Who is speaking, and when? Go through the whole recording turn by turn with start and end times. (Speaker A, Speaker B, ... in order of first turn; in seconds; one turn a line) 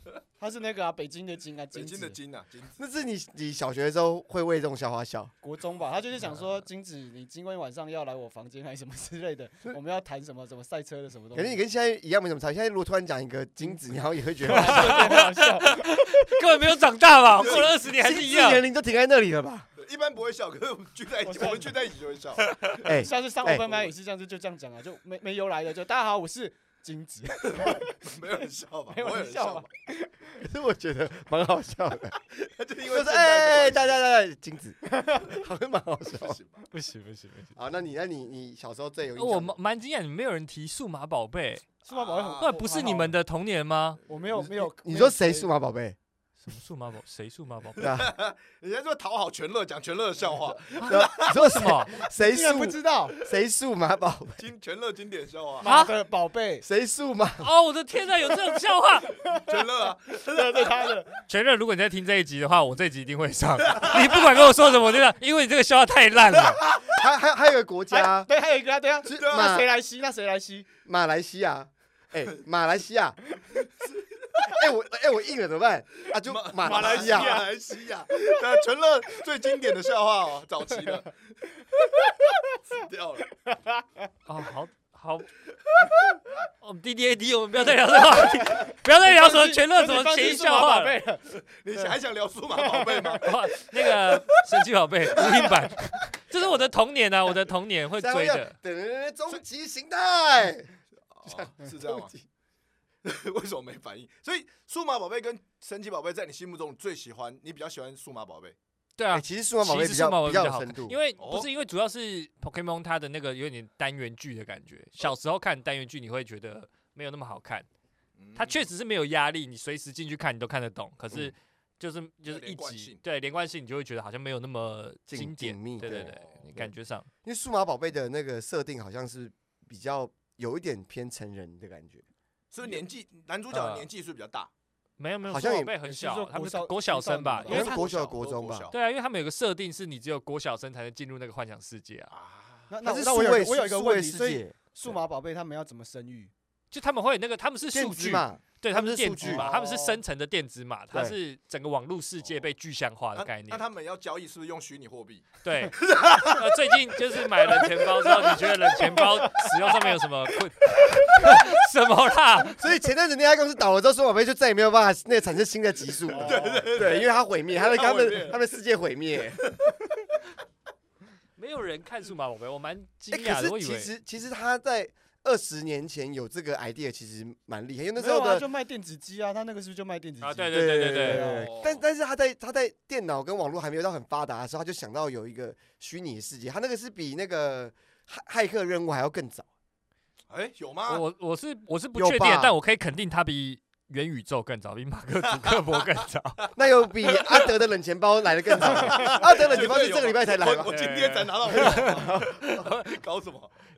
Speaker A: 0.4-2.2
Speaker B: 1.7-2.8
Speaker C: 2.8-5.3
Speaker A: 5.4-11.6
Speaker C: 11.3-15.2
Speaker A: 14.4-15.9
Speaker D: 14.5-18.6
Speaker B: 17.4-17.7
Speaker C: 17.4-19.7
Speaker B: 19.8-22.9
Speaker A: 21.2-21.7
Speaker D: 22.4-22.8
Speaker C: 22.8-23.7
Speaker A: 22.9-27.9
Speaker B: 27.6-29.7
Speaker A: 28.9-30.4
Speaker C: 30.4-32.2
Speaker B: 32.4-34.0
Speaker C: 32.9-36.4
Speaker A: 34.9-35.3
Speaker B: 36.1-36.6
Speaker D: 36.7-37.5
Speaker C: 37.5-39.5
Speaker D: 39.1-41.7
Speaker A: 41.8-43.2
Speaker B: 41.9-42.5
Speaker D: 42.4-44.0
Speaker A: 44.1-45.5
Speaker C: 44.3-46.0
Speaker D: 46.4-47.9
Speaker C: 47.8-48.1
Speaker B: 47.8-51.4
Speaker D: 50.8-51.9
Speaker C: 50.8-54.4
Speaker A: 52.1-53.1
Speaker B: 54.4-55.7
Speaker A: 55.6-56.6
Speaker D: 55.6-55.9
Speaker C: 56.6-57.5
Speaker D: 57.4-59.1
Speaker A: 59.2-59.6
Speaker B: 59.3-60.9
Speaker A: 60.3-61.2
Speaker D: 61.3-66.6
Speaker B: 63.6-64.3
Speaker C: 66.6-68.3
Speaker A: 67.9-70.7
Speaker C: 69.0-69.7
Speaker B: 69.2-69.6
Speaker C: 70.8-73.2
Speaker C: 74.4-77.4
Speaker B: 76.2-81.3
Speaker A: 76.6-77.5
Speaker B: 82.6-83.3
Speaker A: 83.5-83.9
Speaker D: 84.2-85.3
Speaker D: 86.6-91.0
Speaker A: 88.3-91.9
Speaker B: 91.5-93.3
Speaker A: 92.5-93.3
Speaker D: 93.2-98.5
Speaker C: 98.0-100.7
Speaker B: 101.1-102.1
Speaker C: 101.2-102.2
Speaker B: 103.0-108.5
Speaker D: 109.0-117.7
Speaker C: 109.1-111.0
Speaker B: 111.2-111.5
Speaker B: 118.2-118.7
Speaker D: 118.3-127.1
Speaker B: 122.3-123.0
Speaker C: 125.1-126.7
Speaker B: 125.9-126.4
Speaker C: 127.2-132.0
Speaker B: 132.5-134.5
Speaker D: 133.5-133.9
Speaker D: 135.0-137.7
Speaker C: 135.3-135.7
Speaker A: 135.8-137.8
Speaker B: 137.4-138.8
Speaker C: 137.5-138.7
Speaker D: 138.7-142.1
Speaker B: 142.1-142.7
Speaker A: 142.7-146.3
Speaker C: 142.8-144.5
Speaker D: 146.7-153.6
Speaker C: 147.7-149.5
Speaker A: 149.2-150.0
Speaker B: 153.2-156.6
Speaker D: 155.4-162.6
Speaker B: 157.5-159.9
Speaker C: 162.6-169.4
Speaker A: 166.1-166.7
Speaker B: 166.2-168.4
Speaker D: 171.4-173.9
Speaker C: 173.1-178.4
Speaker A: 178.0-181.5
Speaker D: 180.2-181.3
Speaker C: 180.5-189.4
Speaker B: 181.3-181.8
Speaker B: 190.3-191.0
Speaker D: 190.9-196.4
Speaker C: 191.9-192.6
Speaker B: 195.2-196.0
Speaker C: 196.5-200.8
Speaker B: 197.1-197.5
Speaker B: 198.5-203.5
Speaker D: 200.6-203.0
Speaker C: 201.5-202.5